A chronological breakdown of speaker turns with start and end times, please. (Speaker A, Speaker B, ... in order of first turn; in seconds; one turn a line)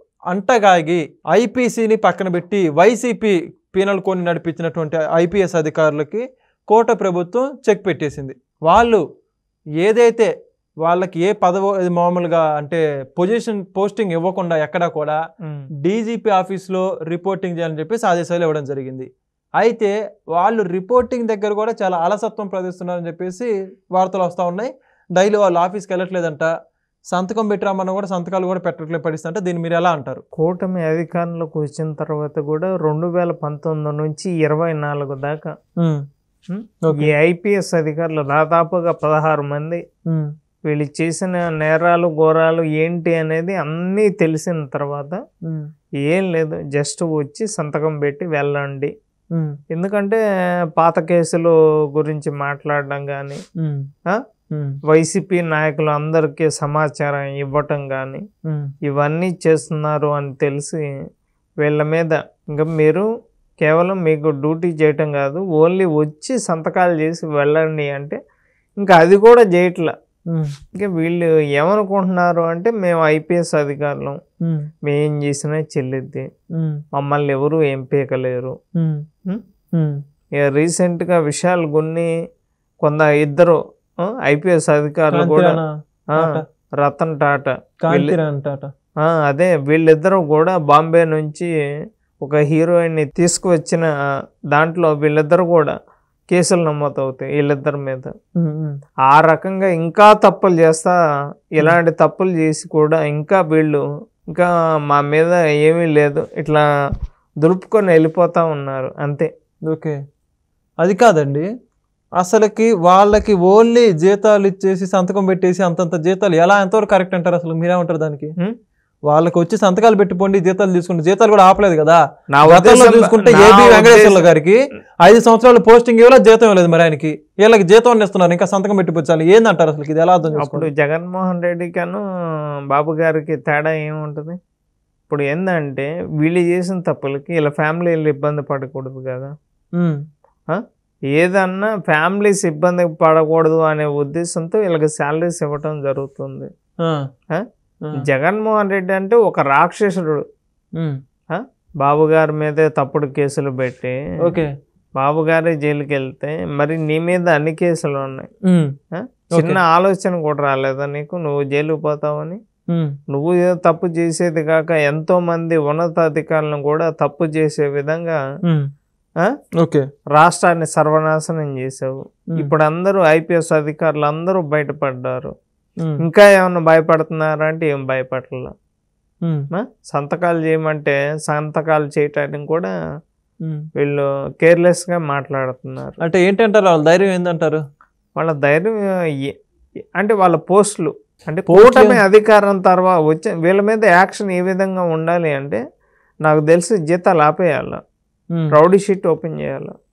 Speaker A: 0.3-9.0
Speaker A: 9.8-10.3
Speaker A: 10.8-15.2
Speaker A: 15.8-19.1
Speaker A: 19.6-26.5
Speaker A: 27.1-30.2
Speaker B: 30.4-35.5
Speaker B: 36.5-39.8
Speaker A: 36.8-37.1
Speaker B: 40.7-45.2
Speaker B: 46.0-48.9
Speaker B: 49.7-50.2
Speaker B: 50.8-53.4
Speaker A: 53.6-53.9
Speaker B: 54.9-58.2
Speaker A: 58.5-58.7
Speaker B: 58.9-60.8
Speaker B: 61.6-63.0
Speaker B: 63.6-68.2
Speaker B: 68.8-69.9
Speaker B: 70.7-74.2
Speaker B: 74.8-76.2
Speaker B: 77.0-78.5
Speaker A: 78.8-79.0
Speaker B: 80.4-82.1
Speaker B: 82.8-83.6
Speaker B: 84.1-85.6
Speaker A: 85.1-86.4
Speaker B: 86.2-88.1
Speaker A: 87.8-88.7
Speaker B: 89.0-91.5
Speaker B: 92.2-93.9
Speaker B: 94.5-95.7
Speaker B: 96.3-98.1
Speaker A: 98.4-98.7
Speaker B: 99.1-101.0
Speaker B: 101.6-106.6
Speaker B: 107.4-109.3
Speaker A: 109.7-110.0
Speaker A: 110.8-111.4
Speaker A: 112.2-118.3
Speaker A: 119.1-130.7
Speaker B: 122.3-124.2
Speaker B: 130.4-132.0
Speaker B: 132.7-134.3
Speaker B: 135.1-139.3
Speaker B: 141.1-146.5
Speaker B: 148.0-150.2
Speaker B: 151.3-153.9
Speaker A: 154.2-154.5
Speaker B: 155.0-158.3
Speaker A: 158.4-158.7
Speaker B: 158.9-162.4
Speaker A: 159.3-159.6
Speaker A: 162.7-162.9
Speaker B: 163.1-168.2
Speaker A: 169.6-169.8
Speaker B: 170.1-175.3
Speaker B: 176.0-178.5
Speaker B: 179.5-182.7
Speaker B: 183.8-186.0
Speaker A: 186.0-187.6
Speaker B: 188.2-189.3
Speaker B: 190.0-195.6
Speaker A: 191.5-192.0
Speaker B: 196.2-197.8
Speaker B: 198.5-199.7